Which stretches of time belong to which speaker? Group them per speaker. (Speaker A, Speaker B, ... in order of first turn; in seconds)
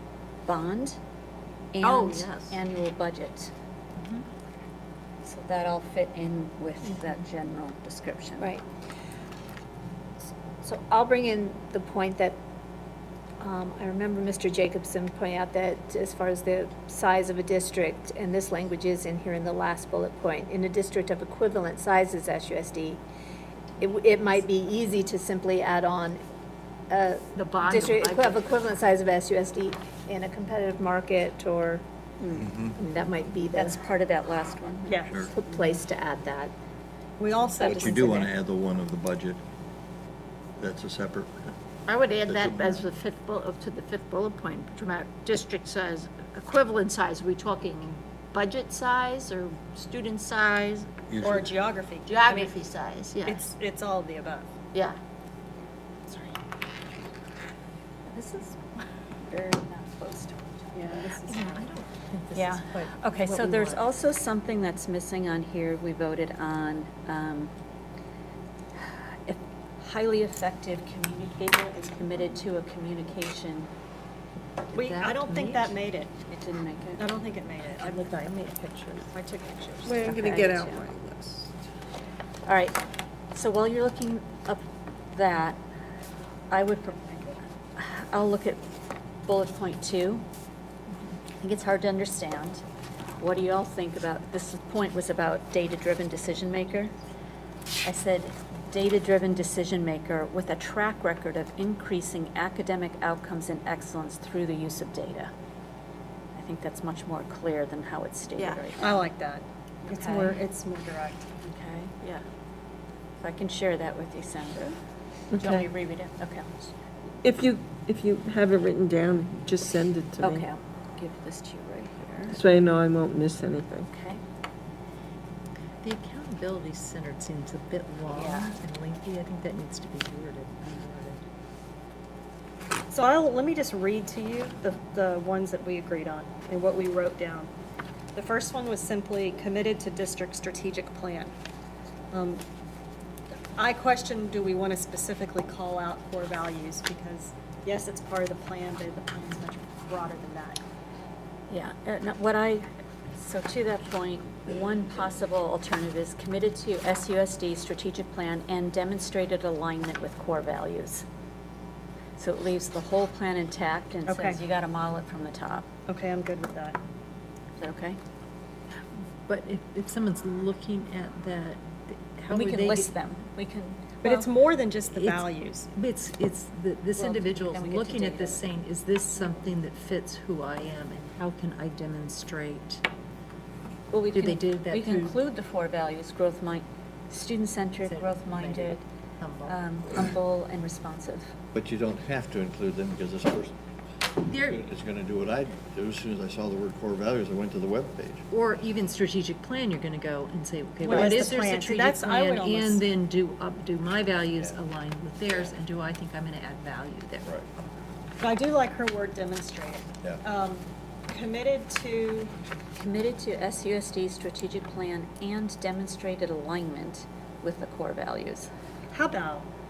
Speaker A: 0.5-1.0, 1.7-3.5, 5.2-8.5, 32.2-32.5, 33.5-35.6, 58.1-58.7, 59.2-61.0, 62.3-67.5, 69.2-73.7, 76.3-77.0, 80.0-80.8, 82.5-82.8, 83.3-85.6, 86.5-88.6, 89.2-90.2, 91.4-92.6, 93.2-96.9, 97.8-105.3, 106.3-109.0, 109.9-110.4, 111.4-112.0, 113.2-114.8, 115.3-116.7, 120.2-122.4, 123.9-124.2, 128.1-128.5, 151.5-161.0, 162.2-165.7, 167.6-168.0, 172.3-174.2, 176.9-178.5, 183.9-188.8, 189.4-191.3, 212.8-218.5
Speaker B: 1.8-2.5, 27.3-28.5, 41.9-51.0, 52.0-53.4
Speaker C: 10.6-12.4, 13.4-23.0, 23.8-26.2, 26.9-31.8, 32.8-33.8, 35.3-36.5, 37.6-38.2
Speaker D: 32.3-32.8, 37.6-39.4, 40.6-41.5, 42.2-42.9, 51.1-51.5, 191.5-193.6, 194.4-198.2
Speaker E: 34.9-35.2, 37.2-38.0, 51.2-52.5, 53.2-54.5, 60.7-61.7, 74.7-76.1, 77.0-78.1, 79.1-80.6, 108.8-111.3, 132.9-137.5, 138.1-141.3, 142.1-142.4, 143.6-150.6, 164.1-164.4, 165.9-166.8, 174.0-175.7, 200.8-202.8, 208.2-212.3, 218.9-219.4
Speaker F: 61.2-63.8, 74.7-75.7, 77.8-79.1, 125.8-131.2, 169.3-172.9, 174.9-182.8, 184.1-185.1, 187.8-189.6, 194.2-194.6, 198.3-207.3
Speaker G: 79.8-81.5, 117.2-120.5, 122.3-123.9